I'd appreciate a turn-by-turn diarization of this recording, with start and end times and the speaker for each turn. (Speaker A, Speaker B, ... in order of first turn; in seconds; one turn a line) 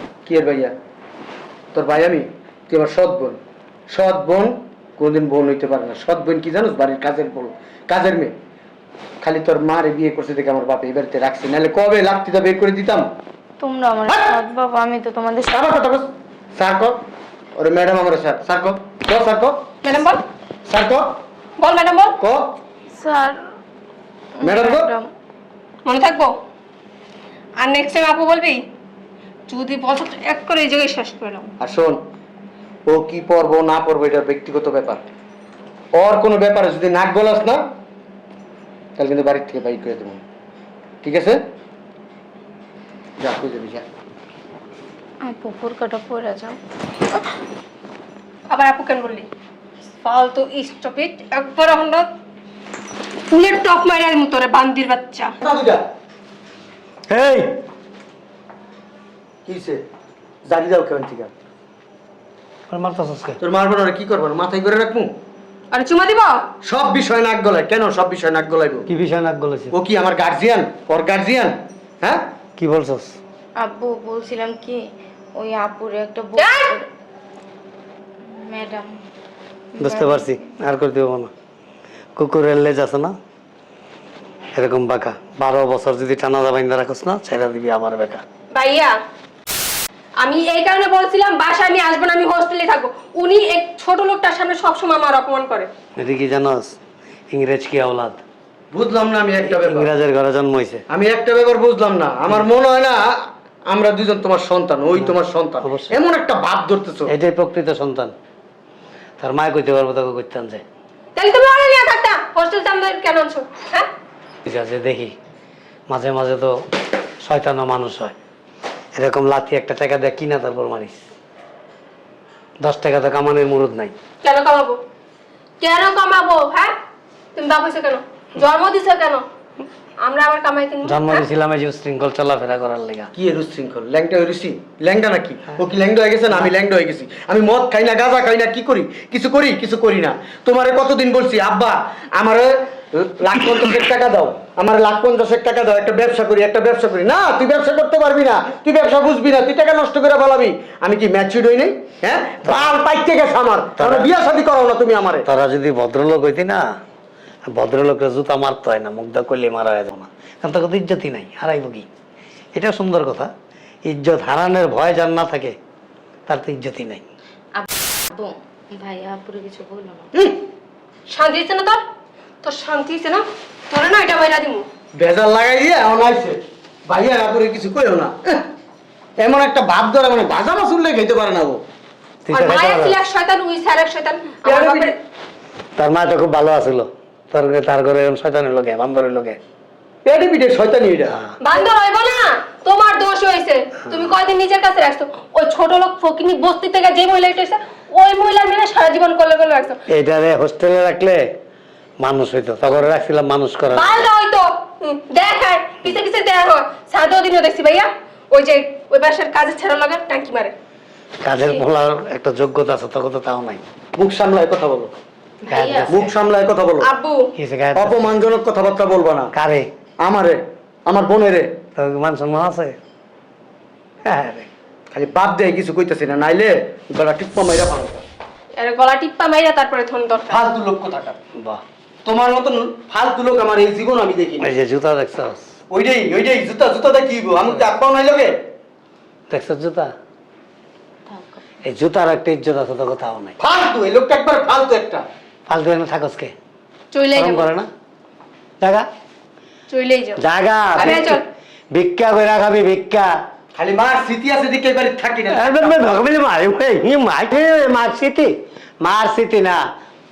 Speaker A: 0.2-0.7
Speaker A: 1.7-3.4
Speaker A: 3.9-8.3
Speaker A: 9.2-13.1
Speaker B: 13.6-15.5
Speaker A: 15.5-17.0
Speaker A: 17.6-19.6
Speaker C: 19.8-20.2
Speaker A: 20.6-21.1
Speaker C: 21.6-22.1
Speaker B: 22.9-23.4
Speaker B: 24.4-25.1
Speaker A: 24.4-24.9
Speaker C: 25.8-26.4
Speaker C: 27.6-28.6
Speaker C: 29.5-31.5
Speaker A: 31.6-32.0
Speaker A: 32.9-35.0
Speaker A: 35.9-37.6
Speaker A: 39.0-40.2
Speaker A: 41.0-41.4
Speaker A: 43.2-43.8
Speaker B: 45.2-46.6
Speaker C: 48.5-49.3
Speaker C: 50.0-52.1
Speaker C: 53.3-55.3
Speaker A: 55.4-55.8
Speaker D: 57.1-57.6
Speaker A: 59.5-59.8
Speaker A: 60.5-61.3
Speaker D: 62.7-63.4
Speaker A: 63.4-65.1
Speaker C: 65.7-66.4
Speaker A: 66.6-68.9
Speaker D: 68.9-69.7
Speaker A: 69.7-72.3
Speaker D: 72.6-73.2
Speaker B: 73.6-74.8
Speaker B: 75.3-76.8
Speaker C: 76.4-76.8
Speaker B: 78.3-78.9
Speaker B: 79.7-80.3
Speaker D: 79.8-81.3
Speaker D: 82.2-83.1
Speaker D: 84.5-88.2
Speaker C: 88.5-89.0
Speaker C: 90.2-95.7
Speaker D: 96.0-96.8
Speaker D: 97.3-98.2
Speaker A: 98.7-99.9
Speaker D: 99.4-100.8
Speaker A: 100.9-103.1
Speaker A: 103.7-107.1
Speaker D: 105.0-105.9
Speaker D: 107.1-108.1
Speaker D: 109.2-110.6
Speaker C: 111.2-113.9
Speaker D: 114.4-115.1
Speaker D: 115.9-116.5
Speaker D: 117.2-118.1
Speaker D: 119.0-121.0
Speaker D: 122.6-123.9
Speaker C: 124.2-124.8
Speaker C: 125.6-126.7
Speaker C: 127.3-129.2
Speaker C: 130.0-131.2
Speaker D: 130.8-133.1
Speaker A: 133.2-155.3
Speaker D: 152.4-152.7
Speaker D: 153.8-154.1
Speaker D: 155.2-156.6
Speaker D: 157.5-161.8
Speaker D: 162.5-163.3
Speaker D: 163.8-165.5
Speaker D: 166.3-167.1
Speaker B: 167.6-170.1
Speaker C: 171.1-171.8
Speaker C: 172.4-174.7
Speaker A: 174.9-178.4
Speaker A: 179.2-181.6
Speaker D: 182.2-183.0
Speaker C: 182.3-184.9
Speaker A: 184.4-184.9
Speaker D: 185.8-189.4
Speaker A: 190.0-191.2
Speaker C: 191.4-199.8
Speaker D: 199.9-201.2
Speaker D: 202.0-204.1
Speaker C: 203.7-210.5
Speaker D: 211.2-213.6
Speaker A: 213.9-214.9
Speaker B: 215.4-216.0
Speaker D: 215.5-216.1
Speaker A: 215.8-216.9
Speaker C: 216.8-217.3
Speaker D: 217.3-218.1
Speaker A: 217.8-219.3
Speaker D: 219.3-219.7
Speaker A: 220.0-221.5
Speaker D: 221.8-222.8
Speaker D: 224.1-224.5
Speaker A: 224.9-228.0
Speaker C: 228.6-230.4
Speaker A: 230.3-231.2
Speaker D: 231.4-231.6
Speaker A: 232.0-234.5
Speaker D: 234.4-235.4
Speaker A: 235.7-238.3
Speaker D: 239.3-239.9
Speaker B: 241.1-241.4
Speaker D: 241.6-243.3
Speaker A: 243.4-245.0
Speaker D: 245.5-246.3
Speaker C: 246.9-247.5
Speaker D: 247.1-247.7
Speaker D: 248.6-248.8
Speaker C: 249.7-250.2
Speaker D: 250.2-251.2
Speaker C: 250.7-251.2
Speaker D: 251.7-253.1
Speaker A: 253.5-256.0
Speaker D: 255.3-259.6